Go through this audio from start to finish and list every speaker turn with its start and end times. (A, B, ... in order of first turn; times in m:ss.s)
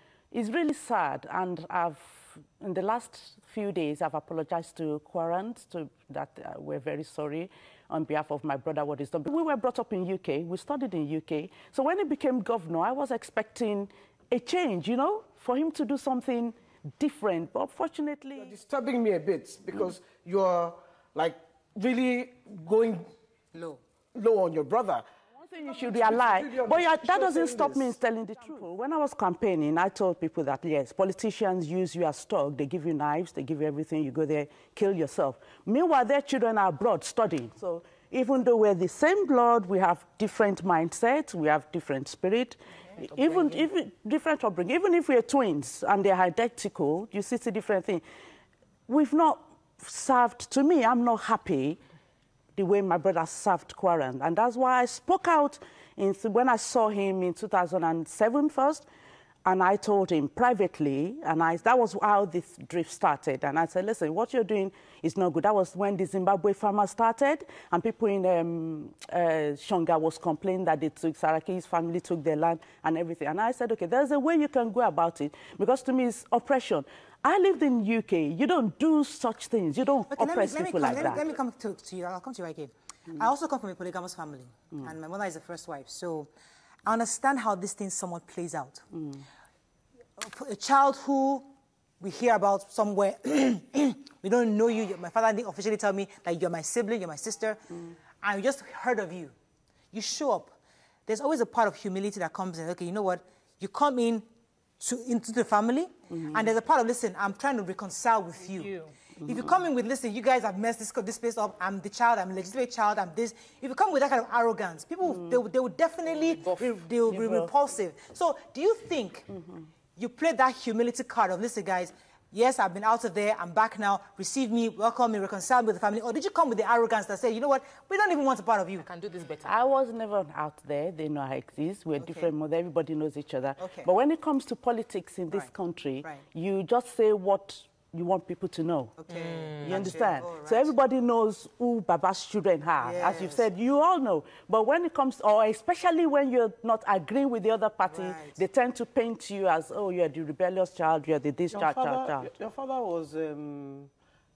0:00.3-0:18.5 A
0:18.4-0:23.0 B
0:23.5-0:23.8 C
0:24.1-0:25.0 B
0:25.4-0:48.0 A
0:25.6-0:28.0 B
0:48.9-0:51.8 A
0:52.6-0:58.8 A
0:59.4-1:21.2 A
1:20.1-1:26.3 C
1:26.8-1:28.8 C
1:30.2-1:31.5 C
1:32.0-1:39.3 C
1:39.9-1:40.6 C
1:41.1-1:44.2 C
1:44.8-1:59.3 C
1:57.1-1:57.5 A
2:00.0-2:08.9 C
2:09.4-2:19.0 A
2:12.0-2:12.3 C
2:13.6-2:13.9 C
2:19.0-2:20.7 C
2:19.6-2:32.3 A
2:22.8-2:23.4 C
2:27.9-2:28.4 C
2:31.5-2:33.9 B